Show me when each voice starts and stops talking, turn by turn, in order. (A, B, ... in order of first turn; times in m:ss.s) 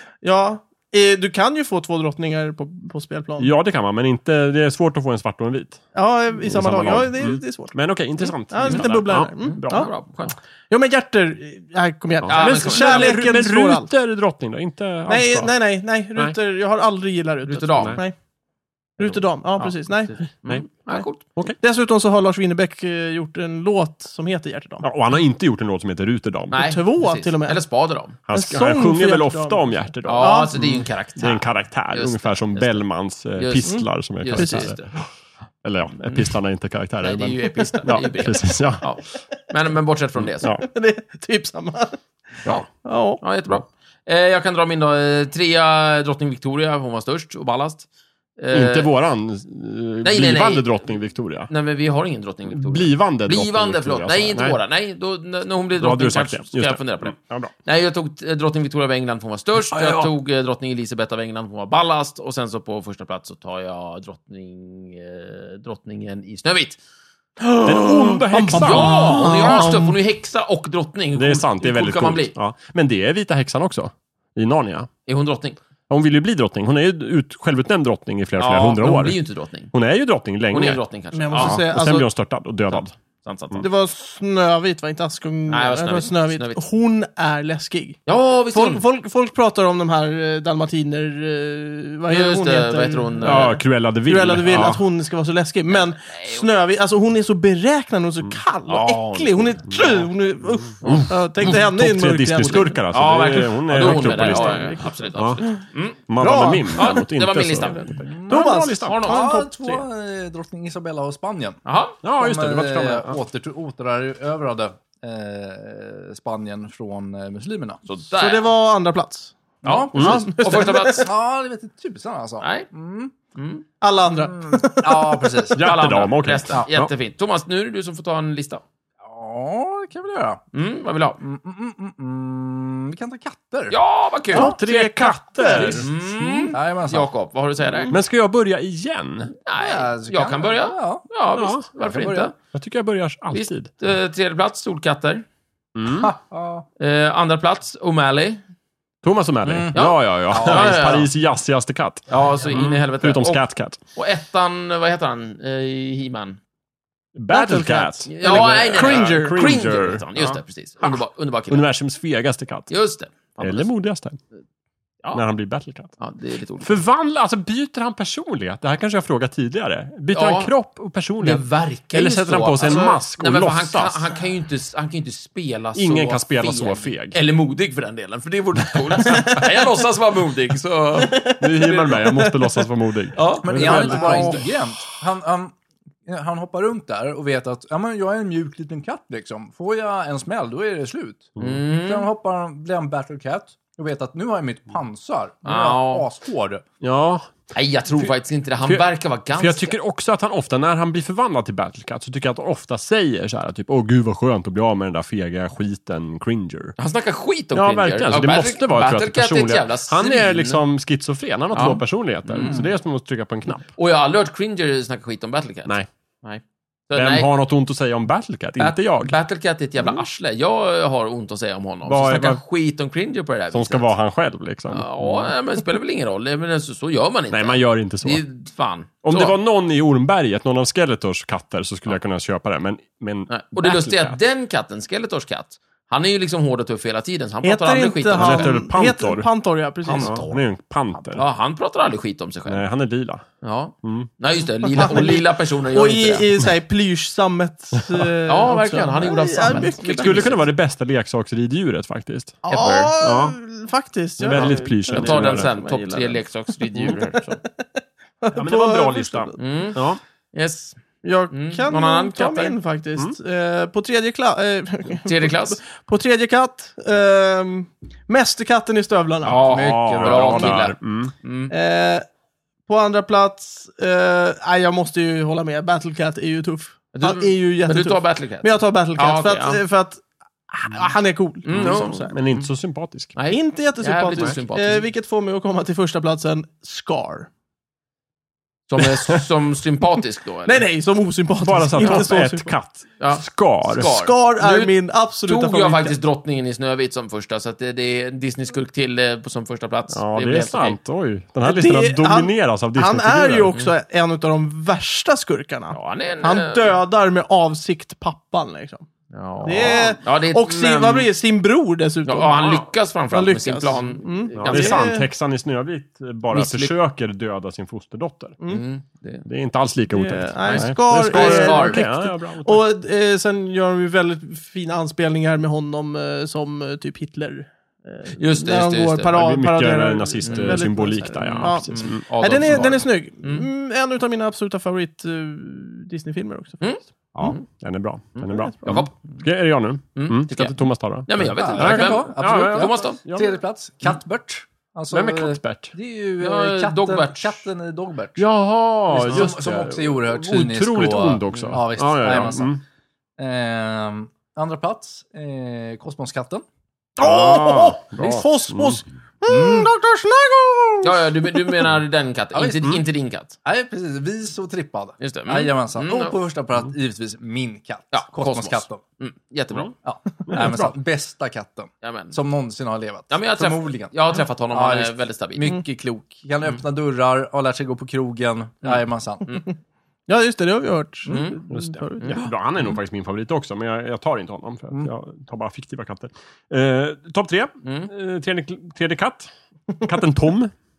0:00.2-0:03.5 A
0:03.4-0:05.8 B
0:06.0-0:09.9 A
0:06.4-0:09.9 B
0:09.4-0:10.4 C
0:10.7-0:13.9 A
0:12.2-0:15.5 B
0:12.3-0:13.2 C
0:15.1-0:18.2 A
0:17.5-0:18.0 C
0:19.0-0:20.2 A
0:19.0-0:21.2 C
0:21.6-0:24.9 A
0:24.8-0:26.7 B
0:26.5-0:28.2 C
0:26.6-0:27.6 A
0:28.3-0:35.0 B
0:28.3-0:30.8 A
0:30.1-0:32.8 C
0:33.4-0:35.0 C
0:33.7-0:34.7 A
0:35.6-0:38.9 B
0:36.0-0:36.4 C
0:37.0-0:40.5 C
0:40.2-0:40.6 B
0:40.6-0:42.0 A
0:42.8-0:43.2 A
0:43.2-0:47.9 C
0:48.4-0:48.9 C
0:48.5-0:51.5 B
0:50.0-0:50.8 C
0:51.5-1:06.8 C
0:52.5-0:54.6 B
0:55.8-0:57.5 B
0:59.7-1:00.1 B
1:07.4-1:10.0 A
1:07.6-1:09.7 B
1:08.5-1:12.4 C
1:11.2-1:14.9 B
1:15.1-1:15.6 C
1:15.9-1:19.2 B
1:18.4-1:19.7 C
1:19.7-1:20.8 B
1:20.5-1:21.6 C
1:21.1-1:22.1 A
1:21.3-1:22.9 B
1:22.7-1:23.6 C
1:23.6-1:28.0 A
1:25.5-1:26.6 C
1:28.1-1:28.8 C
1:28.5-1:42.8 A
1:32.1-1:33.6 C
1:33.2-1:34.8 B
1:35.7-1:36.5 C
1:38.7-1:40.0 C
1:40.8-1:45.4 B
1:40.8-1:41.1 C
1:42.9-1:46.0 C
1:43.8-1:45.6 A
1:46.1-1:49.1 B
1:46.2-1:47.0 A
1:46.7-1:48.2 C
1:48.1-1:51.6 D
1:48.3-1:49.8 A
1:48.8-1:49.2 C
1:51.6-1:52.0 C
1:52.0-1:53.2 B
1:52.2-1:57.8 D
1:57.9-1:58.5 C
1:58.2-1:59.4 A
1:59.6-2:03.1 D
1:59.6-2:01.1 C
1:59.9-2:00.2 B
1:59.9-2:01.1 A
2:02.4-2:02.7 C
2:03.4-2:03.6 C
2:03.8-2:05.3 A
2:04.1-2:05.7 D
2:05.6-2:06.9 B
2:05.6-2:08.6 C
2:09.0-2:10.4 D
2:10.5-2:11.2 C
2:11.2-2:13.8 D
2:13.7-2:14.5 C
2:14.3-2:15.8 A
2:14.3-2:16.4 B
2:15.5-2:15.9 D
2:15.7-2:18.0 C
2:16.5-2:17.1 D
2:17.9-2:19.3 B
2:19.4-2:22.3 C
2:19.6-2:21.0 D
2:21.4-2:21.7 B
2:21.8-2:22.3 D
2:22.5-2:23.7 B
2:23.3-2:25.2 C
2:25.8-2:26.1 B
2:25.9-2:26.7 D
2:26.8-2:28.4 C
2:29.0-2:33.8 B
2:29.4-2:31.0 D
2:29.7-2:31.1 C
2:32.1-2:36.4 C
2:37.2-2:42.7 B
2:37.3-2:39.4 A
2:38.1-2:41.6 C
2:42.7-2:43.7 C
2:43.4-2:44.2 B
2:45.1-2:45.9 B
2:46.0-2:46.8 C
2:46.6-2:54.2 B
2:50.1-2:50.5 C
2:51.2-3:02.0 C
2:55.8-2:57.2 B
2:58.8-2:59.4 B
3:01.0-3:02.7 A
3:01.4-3:04.4 B
3:03.1-3:04.6 C
3:03.4-3:05.6 D
3:06.1-3:16.6 D
3:11.4-3:11.6 B
3:11.4-3:12.1 C
3:15.4-3:16.1 C
3:16.8-3:18.1 B
3:17.5-3:19.7 C
3:18.6-3:26.8 B
3:26.8-3:30.6 C
3:27.6-3:33.7 B
3:31.5-3:32.7 C
3:32.4-3:32.7 D
3:33.6-3:37.3 C
3:36.9-3:39.2 B
3:38.6-3:43.9 C
3:41.9-3:42.4 B
3:43.5-3:45.3 B
3:44.7-3:49.4 C
3:47.3-3:48.2 B
3:49.0-3:54.2 B
3:53.3-3:58.6 C
3:57.4-4:00.2 A
3:58.2-3:59.3 B
3:59.8-4:00.4 C
3:59.9-4:01.2 B
4:01.2-4:02.6 C
4:02.5-4:03.2 B
4:03.4-4:06.3 C
4:03.8-4:04.1 B
4:04.6-4:10.4 A
4:07.8-4:08.1 B
4:08.3-4:10.5 C
4:09.6-4:12.4 B
4:12.4-4:16.1 A
4:12.5-4:13.0 C
4:13.0-4:13.4 B
4:14.2-4:16.1 B
4:14.3-4:17.2 C
4:16.8-4:17.4 B
4:16.9-4:19.4 A
4:18.3-4:20.0 B
4:19.4-4:20.8 C
4:21.0-4:29.5 A
4:21.3-4:22.6 C
4:24.9-4:25.6 C
4:29.2-4:31.5 C
4:29.4-4:30.6 D
4:29.5-4:31.1 B
4:31.5-4:32.1 A
4:32.7-4:42.1 A
4:36.9-4:39.6 C
4:41.4-4:42.5 C
4:41.5-4:43.1 B
4:43.2-4:44.9 C
4:43.3-4:47.3 A
4:48.7-4:50.6 C
4:50.4-4:52.5 A
4:51.4-4:53.9 B
4:51.8-4:52.0 C
4:53.0-4:54.8 C
4:53.8-4:56.0 A
4:55.3-5:00.8 C
4:59.9-5:03.5 B
5:01.4-5:08.9 A
5:05.7-5:06.8 C
5:09.1-5:11.1 C
5:09.4-5:15.1 A
5:12.0-5:14.9 C
5:14.4-5:18.4 B
5:16.3-5:16.7 C
5:18.5-5:19.2 C
5:19.2-5:22.6 B
5:19.9-5:36.6 A
5:20.4-5:21.9 C
5:28.1-5:29.2 C
5:29.1-5:32.7 B
5:30.2-5:30.6 C
5:31.2-5:33.5 C
5:36.6-5:37.4 C
5:37.2-5:43.3 B
5:38.2-5:38.9 C
5:40.0-5:43.0 C
5:41.4-5:48.3 D
5:44.9-5:45.7 B
5:46.2-5:47.5 C
5:48.2-5:52.6 B
5:48.9-5:52.6 D
5:53.2-5:56.4 D
5:57.0-6:01.7 A
5:57.0-5:58.8 B
5:59.3-5:59.7 D
6:00.8-6:03.4 C
6:02.3-6:02.8 D
6:03.4-6:08.8 D
6:05.0-6:06.2 C
6:07.9-6:09.7 C
6:09.8-6:19.3 D
6:10.3-6:10.7 B
6:11.8-6:12.2 C
6:13.1-6:15.6 C
6:18.6-6:19.4 C
6:20.1-6:22.2 A
6:21.1-6:21.4 C
6:21.5-6:29.3 B
6:22.0-6:22.3 C
6:27.6-6:27.9 C
6:29.8-6:30.5 B